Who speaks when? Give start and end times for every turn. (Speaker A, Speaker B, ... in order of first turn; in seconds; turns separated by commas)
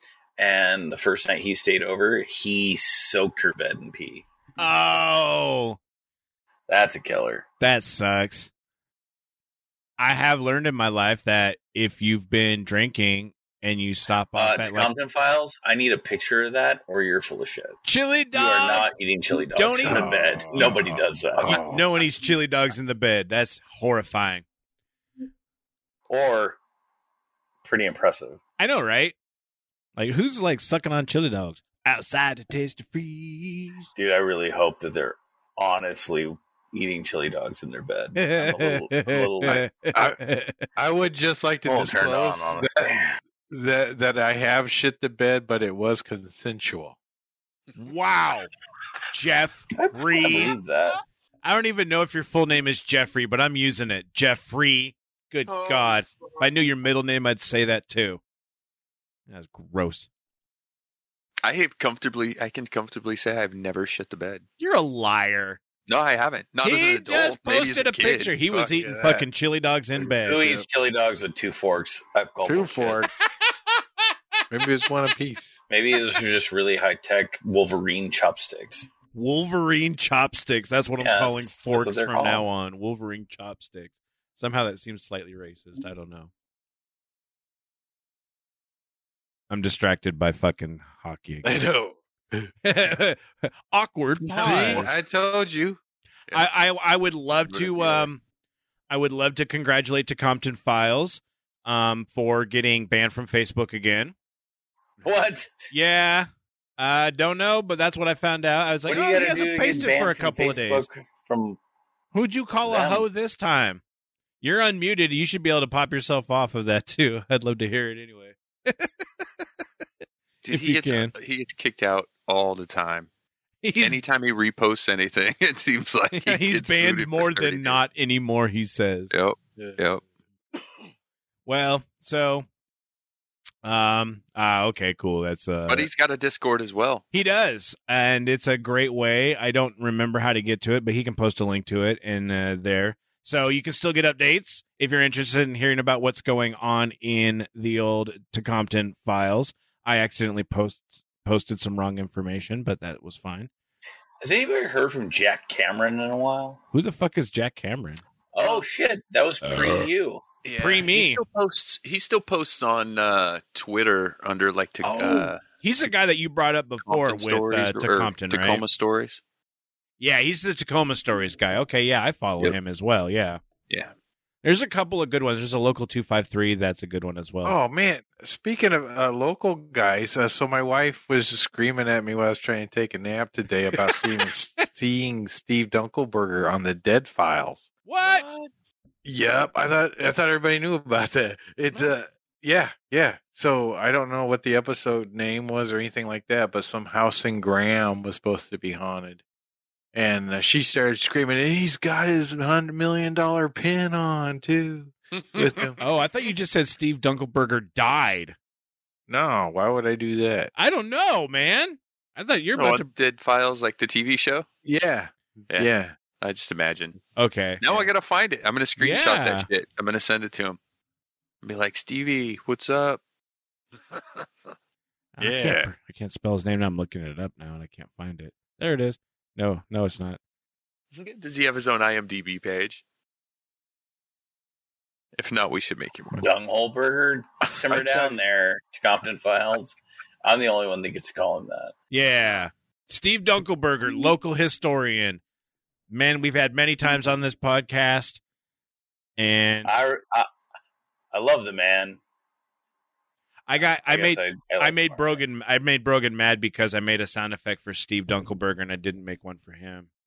Speaker A: 0.4-4.3, Speaker B: 4.6-5.8, Speaker A: 6.7-7.5, Speaker B: 7.6-8.5, Speaker B: 10.0-14.9, Speaker A: 14.3-17.8, Speaker B: 17.9-18.9, Speaker A: 18.3-21.7, Speaker B: 19.5-20.7, Speaker C: 19.9-21.8, Speaker B: 21.5-24.4, Speaker A: 26.1-26.6, Speaker A: 27.6-28.4, Speaker B: 28.6-29.1, Speaker B: 30.0-33.9, Speaker A: 34.0-39.6, Speaker B: 38.2-40.7, Speaker C: 39.5-40.2, Speaker C: 40.8-47.0, Speaker A: 41.7-43.2, Speaker B: 47.8-48.5, Speaker B: 49.1-50.5, Speaker A: 49.8-51.0, Speaker B: 51.4-58.2, Speaker D: 55.5-56.0, Speaker B: 59.3-60.1, Speaker D: 61.4-64.4, Speaker B: 64.6-65.6, Speaker D: 65.9-68.7, Speaker B: 66.6-70.5, Speaker C: 68.5-69.3, Speaker C: 70.1-70.7, Speaker A: 70.2-73.0, Speaker C: 72.4-73.1, Speaker C: 74.5-75.5, Speaker A: 75.7-78.9, Speaker B: 79.1-86.3, Speaker A: 81.0-82.5, Speaker B: 89.5-91.7, Speaker C: 91.4-92.5, Speaker B: 92.6-94.9, Speaker D: 94.2-94.9, Speaker C: 94.4-95.8, Speaker B: 96.3-98.2, Speaker D: 97.4-98.1, Speaker B: 98.9-104.1, Speaker A: 105.0-105.5, Speaker B: 105.7-106.3, Speaker B: 106.8-110.9, Speaker A: 108.9-111.6, Speaker B: 112.1-113.8, Speaker A: 112.7-113.1, Speaker B: 114.4-119.2, Speaker D: 120.4-123.1, Speaker B: 120.5-121.1, Speaker B: 123.6-124.0, Speaker D: 123.8-127.8, Speaker B: 126.1-129.1, Speaker D: 129.1-130.0, Speaker B: 131.5-132.4, Speaker B: 133.6-135.9, Speaker D: 135.7-137.0, Speaker B: 137.1-153.5, Speaker A: 154.2-156.6, Speaker B: 156.7-158.0, Speaker A: 158.3-160.2, Speaker D: 158.4-158.7, Speaker D: 160.4-165.4, Speaker B: 160.6-161.2, Speaker B: 164.8-168.7, Speaker D: 166.8-169.2, Speaker B: 170.0-173.4, Speaker B: 174.4-177.6, Speaker C: 177.4-187.7, Speaker B: 187.9-188.2, Speaker D: 188.0-188.5, Speaker C: 189.1-199.2, Speaker C: 199.9-205.8, Speaker D: 205.2-205.8, Speaker B: 205.8-208.3, Speaker C: 209.1-210.5, Speaker B: 210.6-212.9, Speaker D: 212.6-214.5, Speaker C: 214.6-215.9, Speaker D: 215.5-217.0, Speaker B: 217.2-217.8, Speaker D: 217.6-220.6, Speaker B: 218.8-219.5, Speaker D: 221.4-223.0, Speaker B: 225.2-230.2, Speaker C: 225.2-225.7, Speaker D: 230.9-232.8, Speaker D: 235.2-236.3, Speaker A: 236.2-241.7, Speaker D: 237.7-238.0, Speaker B: 241.9-245.2, Speaker B: 245.9-248.2, Speaker B: 249.2-249.7, Speaker A: 249.7-250.3, Speaker A: 251.1-252.0, Speaker B: 253.5-259.9, Speaker A: 253.9-255.2